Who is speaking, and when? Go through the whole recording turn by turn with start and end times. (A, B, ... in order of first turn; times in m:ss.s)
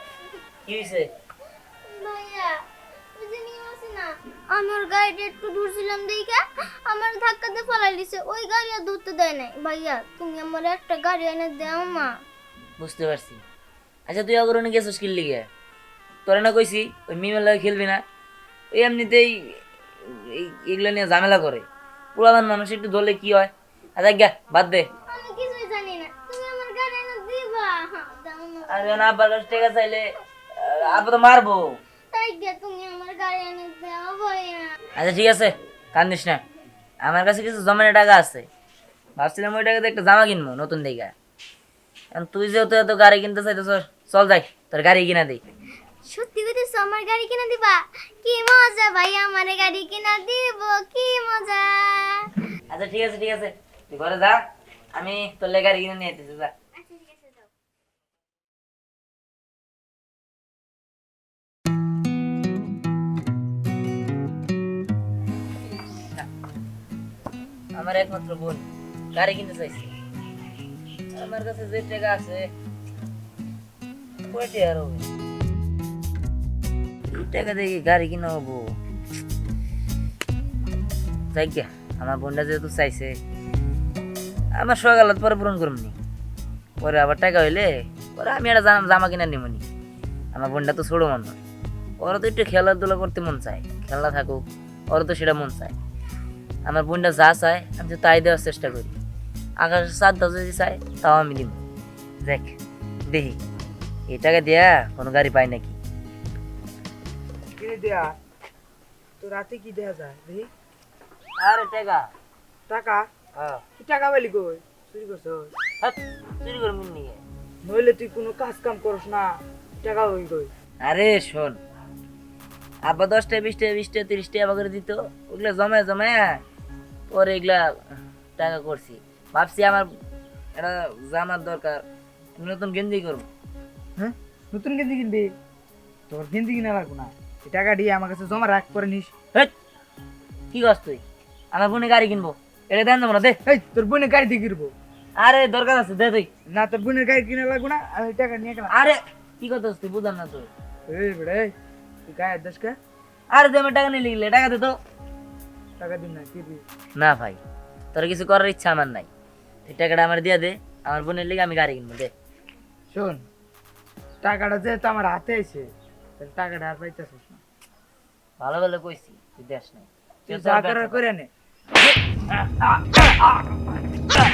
0:00.7-0:01.1 A
0:01.9-0:12.1 B
0:12.8-0:13.4 A
0:14.1-0:15.5 A
0:16.3-0:18.0 A
0:18.7-0:21.6 A
0:22.2-0:24.9 A
0:25.1-0:29.1 B
0:28.7-0:30.1 A
0:30.6-0:31.8 A
0:32.1-0:34.7 B
0:35.0-0:36.4 A
0:37.0-0:38.5 A
0:39.2-0:41.1 A
0:42.1-0:45.4 A
0:46.1-0:52.3 B
0:52.7-0:54.4 A
0:55.0-0:56.5 A
0:56.8-0:57.5 B
1:07.7-1:09.9 A
1:11.1-1:12.5 A
1:14.3-1:15.1 A
1:17.1-1:18.7 A
1:21.3-1:23.2 A
1:24.6-1:26.0 A
1:26.8-1:29.6 A
1:30.3-1:31.4 A
1:32.0-1:35.8 A
1:36.6-1:39.0 A
1:39.6-1:41.6 A
1:42.2-1:42.6 A
1:43.1-1:43.4 A
1:44.1-1:45.8 A
1:47.6-1:48.2 C
1:49.2-1:50.5 C
1:51.4-1:52.1 A
1:52.7-1:53.1 C
1:53.4-1:53.6 A
1:53.8-1:55.5 C
1:55.8-1:57.2 A
1:57.6-2:00.5 C
2:00.8-2:01.6 A
2:02.8-2:06.4 A
2:07.1-2:07.7 A
2:08.4-2:09.9 A
2:10.6-2:11.8 A
2:12.4-2:13.3 A
2:14.0-2:15.3 C
2:16.1-2:19.1 C
2:20.5-2:21.0 A
2:21.5-2:23.4 A
2:23.5-2:24.7 C
2:25.2-2:26.3 A
2:26.5-2:28.7 C
2:28.7-2:30.5 A
2:30.9-2:31.5 C
2:32.1-2:32.8 C
2:33.3-2:34.8 A
2:35.8-2:36.6 C
2:37.0-2:37.4 A
2:37.9-2:39.1 A
2:39.7-2:42.1 A
2:42.9-2:43.2 C
2:44.2-2:47.4 C
2:48.4-2:51.0 A
2:50.3-2:51.3 C
2:52.3-2:53.0 A